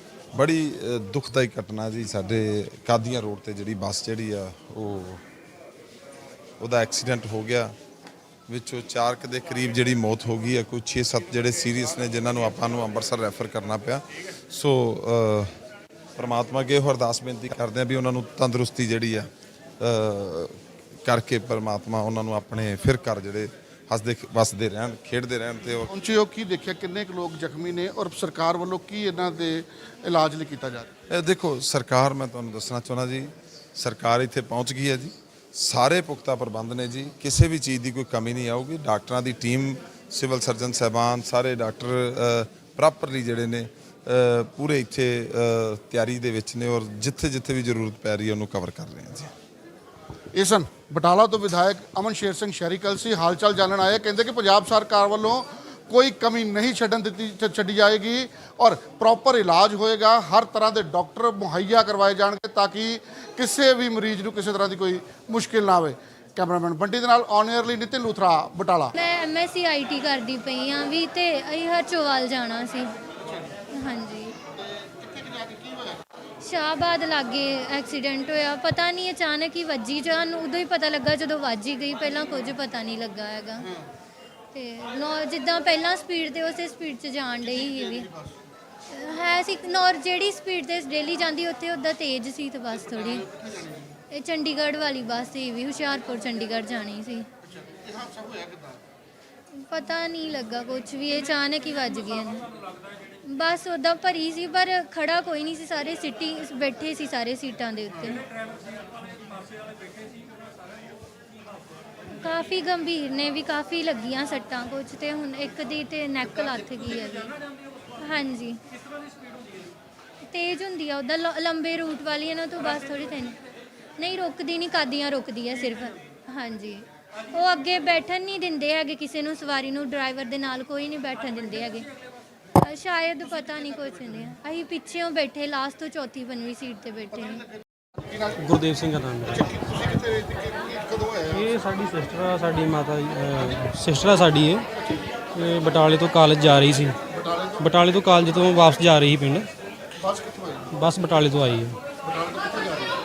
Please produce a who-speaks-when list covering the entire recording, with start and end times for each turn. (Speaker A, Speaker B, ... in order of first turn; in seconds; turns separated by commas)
Speaker A: 0.3-5.2, Speaker A: 6.6-7.8, Speaker A: 8.5-15.6, Speaker A: 16.1-19.3, Speaker A: 19.8-25.9, Speaker B: 25.9-30.9, Speaker A: 31.1-49.3, Speaker B: 50.3-68.9, Speaker C: 68.9-72.9, Speaker C: 73.7-74.3, Speaker C: 76.4-83.7, Speaker C: 84.5-88.1, Speaker C: 88.9-93.3, Speaker C: 94.1-97.3, Speaker B: 97.8-98.6, Speaker C: 99.5-102.5, Speaker C: 103.2-108.2, Speaker C: 112.1-117.4, Speaker C: 118.0-118.6, Speaker C: 120.2-123.4, Speaker C: 124.0-131.9, Speaker C: 132.6-137.4, Speaker D: 138.3-139.6, Speaker B: 139.7-141.3, Speaker D: 141.3-144.7, Speaker D: 145.3-147.0, Speaker B: 147.1-147.6, Speaker D: 147.6-149.5, Speaker B: 150.0-150.7, Speaker D: 150.7-151.8, Speaker B: 152.0-153.0